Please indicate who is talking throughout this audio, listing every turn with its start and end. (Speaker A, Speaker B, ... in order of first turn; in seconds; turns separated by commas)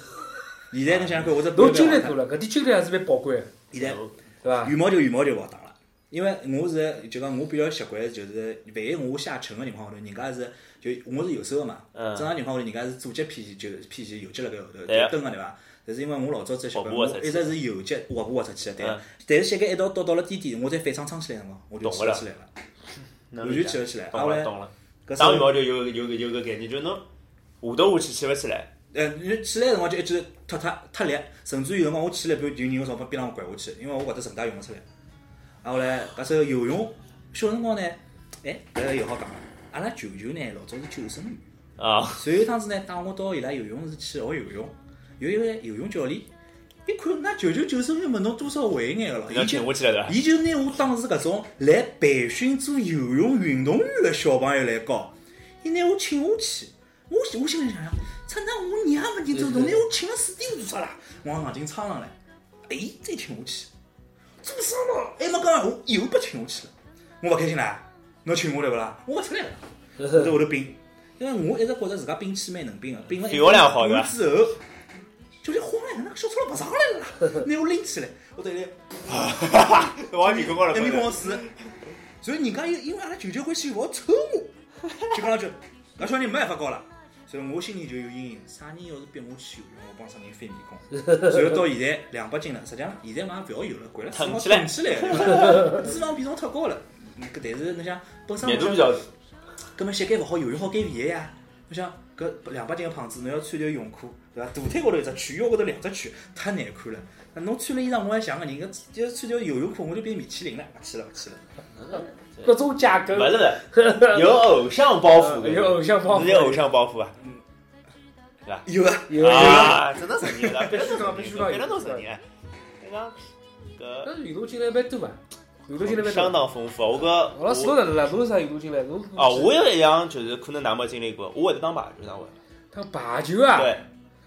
Speaker A: 0.7-2.2, Speaker B: 0.9-1.3, Speaker C: 1.5-3.5, Speaker A: 3.7-4.0, Speaker B: 3.7-4.2, Speaker C: 4.4-4.8, Speaker A: 4.6-22.5, Speaker B: 11.9-12.3, Speaker B: 14.9-15.2, Speaker B: 16.7-17.6, Speaker B: 18.8-19.1, Speaker B: 21.8-22.2, Speaker B: 23.3-27.1, Speaker A: 23.4-24.5, Speaker A: 25.1-25.6, Speaker B: 27.6-28.7, Speaker A: 28.9-34.9, Speaker A: 35.6-41.4, Speaker B: 41.8-42.3, Speaker A: 42.1-46.3, Speaker A: 46.9-63.7, Speaker B: 49.3-50.2, Speaker A: 64.4-74.6, Speaker B: 73.2-74.2, Speaker A: 75.4-78.8, Speaker B: 79.1-81.6, Speaker A: 80.2-81.5, Speaker A: 82.2-84.5, Speaker A: 85.1-99.1, Speaker B: 94.1-95.8, Speaker B: 98.4-99.1, Speaker A: 99.8-111.5, Speaker B: 111.8-112.5, Speaker C: 112.4-114.5, Speaker B: 113.1-117.2, Speaker C: 115.1-116.7, Speaker A: 117.2-117.4, Speaker A: 118.7-120.6, Speaker C: 119.1-119.8, Speaker B: 119.2-122.2, Speaker C: 120.6-122.1, Speaker B: 122.8-123.2, Speaker B: 123.8-124.1, Speaker C: 124.0-126.4, Speaker B: 125.8-127.9, Speaker C: 127.3-129.6, Speaker B: 129.2-132.4, Speaker C: 132.7-133.8, Speaker B: 133.6-133.8